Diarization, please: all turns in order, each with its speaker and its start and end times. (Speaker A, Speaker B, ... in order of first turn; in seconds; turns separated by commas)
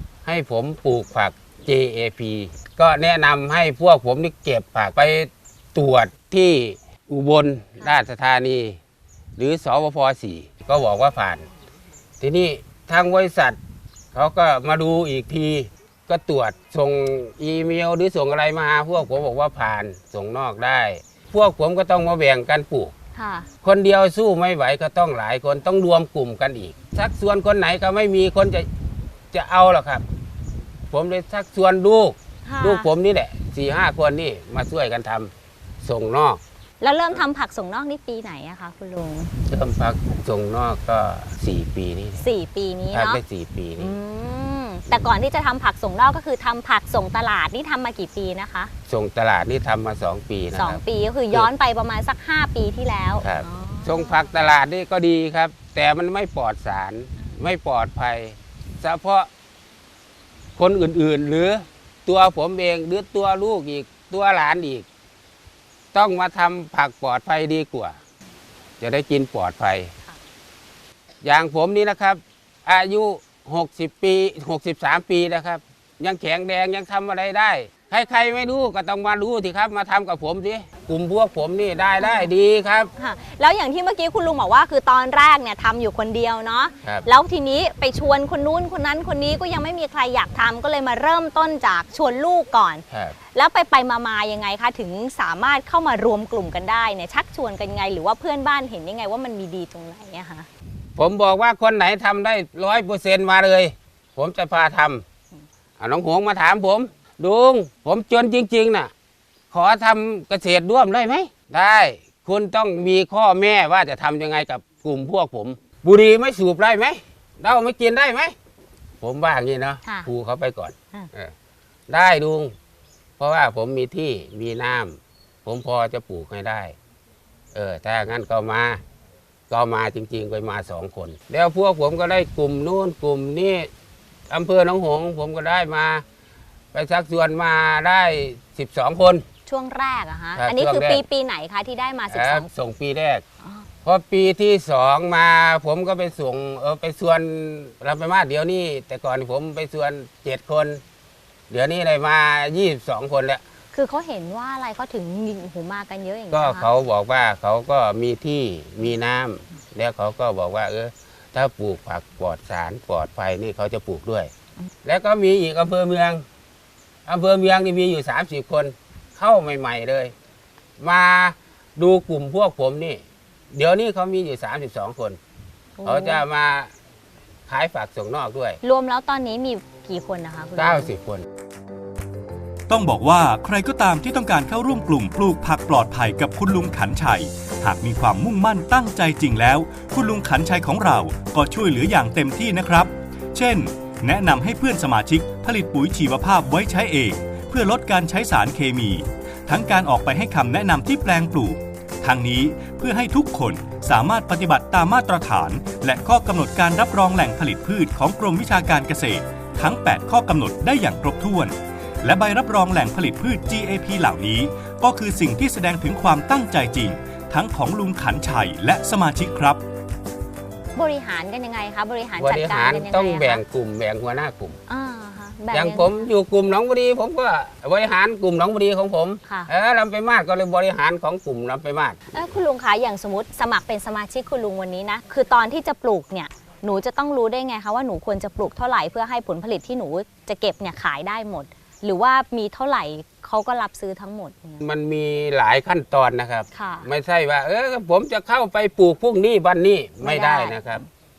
Speaker A: 0.2-8.8, Speaker A: 9.4-11.4, Speaker A: 12.2-13.6, Speaker A: 14.1-22.9, Speaker B: 23.1-23.5, Speaker A: 23.6-28.7, Speaker A: 29.3-30.0, Speaker A: 30.9-35.3, Speaker B: 32.5-32.9, Speaker A: 35.8-36.4, Speaker B: 36.8-39.3, Speaker A: 39.5-42.2, Speaker B: 42.2-43.2, Speaker A: 42.9-43.9, Speaker B: 43.8-48.7, Speaker A: 48.9-50.8, Speaker B: 50.5-54.2, Speaker A: 53.2-59.3, Speaker A: 60.6-64.8, Speaker A: 65.9-68.0, Speaker A: 68.8-69.9, Speaker A: 71.2-82.9, Speaker B: 82.0-82.3, Speaker B: 83.0-92.8, Speaker A: 92.9-93.2, Speaker B: 93.3-100.5, Speaker A: 101.0-105.0, Speaker A: 105.8-108.9, Speaker A: 109.5-118.3, Speaker A: 119.0-121.3, Speaker A: 121.9-122.5, Speaker A: 123.2-126.7, Speaker A: 127.5-128.8, Speaker A: 129.5-133.7, Speaker A: 134.3-136.0, Speaker A: 136.7-139.2, Speaker B: 139.4-142.5, Speaker A: 140.4-141.0, Speaker A: 142.1-143.2, Speaker A: 143.8-150.8, Speaker A: 151.5-153.4, Speaker B: 153.7-156.7, Speaker A: 156.3-164.3, Speaker A: 164.8-166.2, Speaker A: 167.1-170.1, Speaker A: 170.8-173.0, Speaker A: 173.5-175.2, Speaker B: 175.8-176.2, Speaker A: 175.8-176.7, Speaker A: 177.5-178.6, Speaker B: 178.6-180.9, Speaker A: 180.6-181.2, Speaker C: 182.7-219.6, Speaker B: 220.8-223.4, Speaker A: 222.2-224.6, Speaker B: 224.7-226.1, Speaker A: 225.5-232.0, Speaker B: 229.2-229.5, Speaker B: 232.1-244.6, Speaker A: 244.6-250.8, Speaker B: 246.5-246.9, Speaker B: 250.0-250.8